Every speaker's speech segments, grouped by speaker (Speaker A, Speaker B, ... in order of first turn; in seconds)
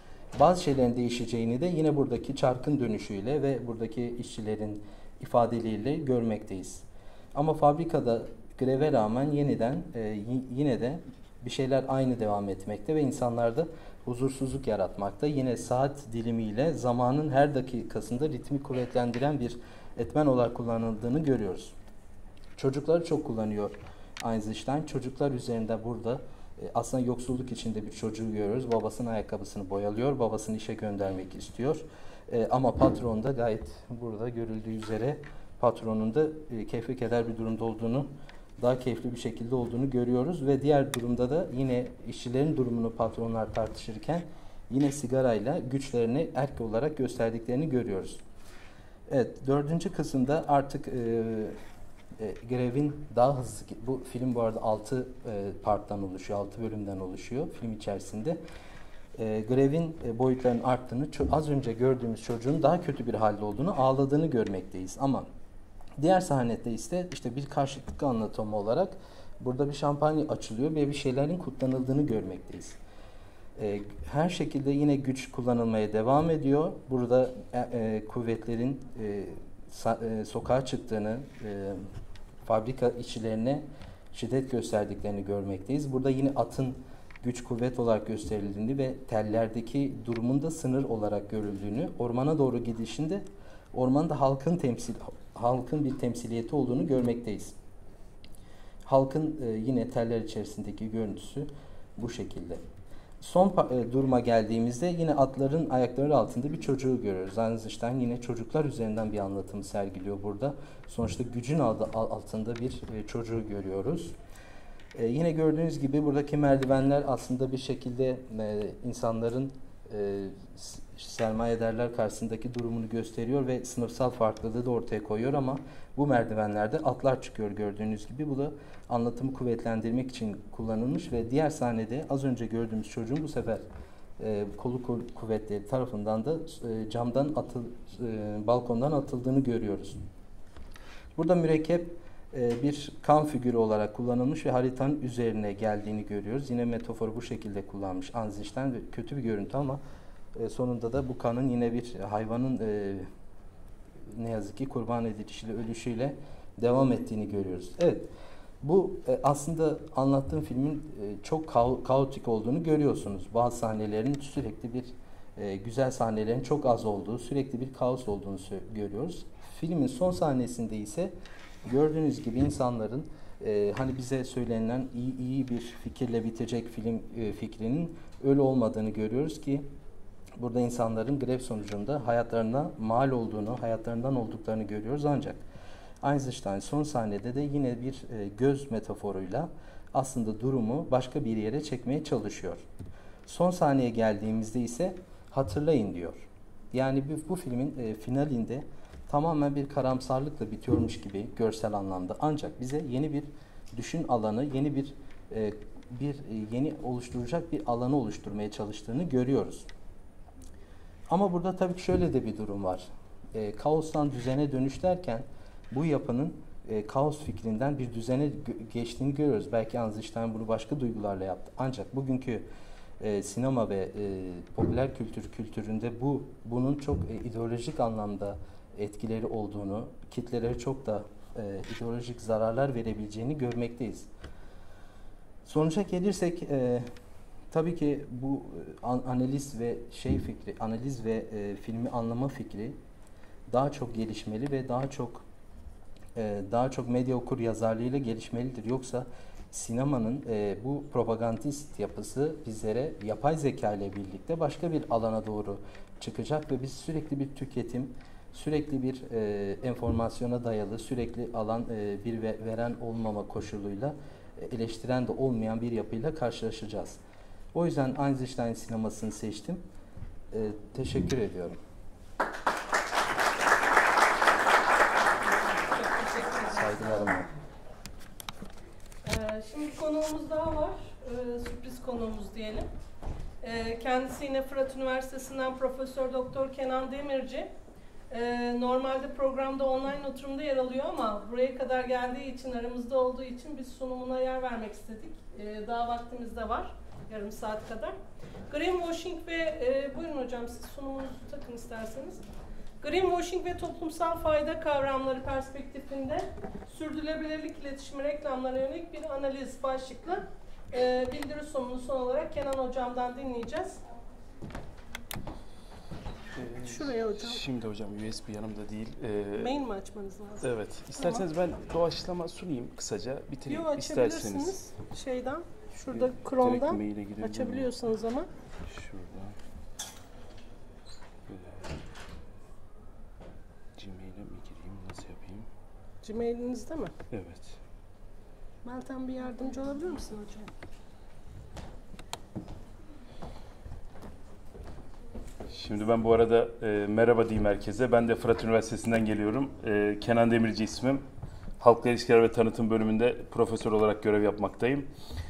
Speaker A: 0.3-6.8, 7.3-21.7, 22.6-48.2, 49.1-51.5, 52.2-58.4, 59.1-65.3, 66.0-72.8, 73.6-81.8, 82.4-97.5, 98.8-102.6, 103.2-114.1, 114.9-133.6, 134.2-140.0, 141.2-149.8, 150.3-153.1, 154.1-158.1, 158.6-171.1, 171.6-179.7, 180.4-185.4, 186.0-192.6, 193.3-209.7, 211.1-222.4, 223.0-234.1, 235.4-236.9, 237.5-242.8, 243.5-245.2, 246.1-267.0, 267.5-269.6, 270.3-271.6, 276.4-277.3
Speaker B: 275.3-277.1, 279.0-282.7, 283.4-287.5, 288.1-297.9, 298.5-302.2, 302.8-313.8, 316.6-317.4, 319.4-321.2, 323.4-328.3, 336.0-336.9, 338.6-340.5
Speaker C: 316.3-319.5, 320.4-324.7, 325.9-327.7, 328.7-329.3, 331.3-331.5, 333.8-335.4, 337.1-337.5, 345.5-351.0, 351.6-354.9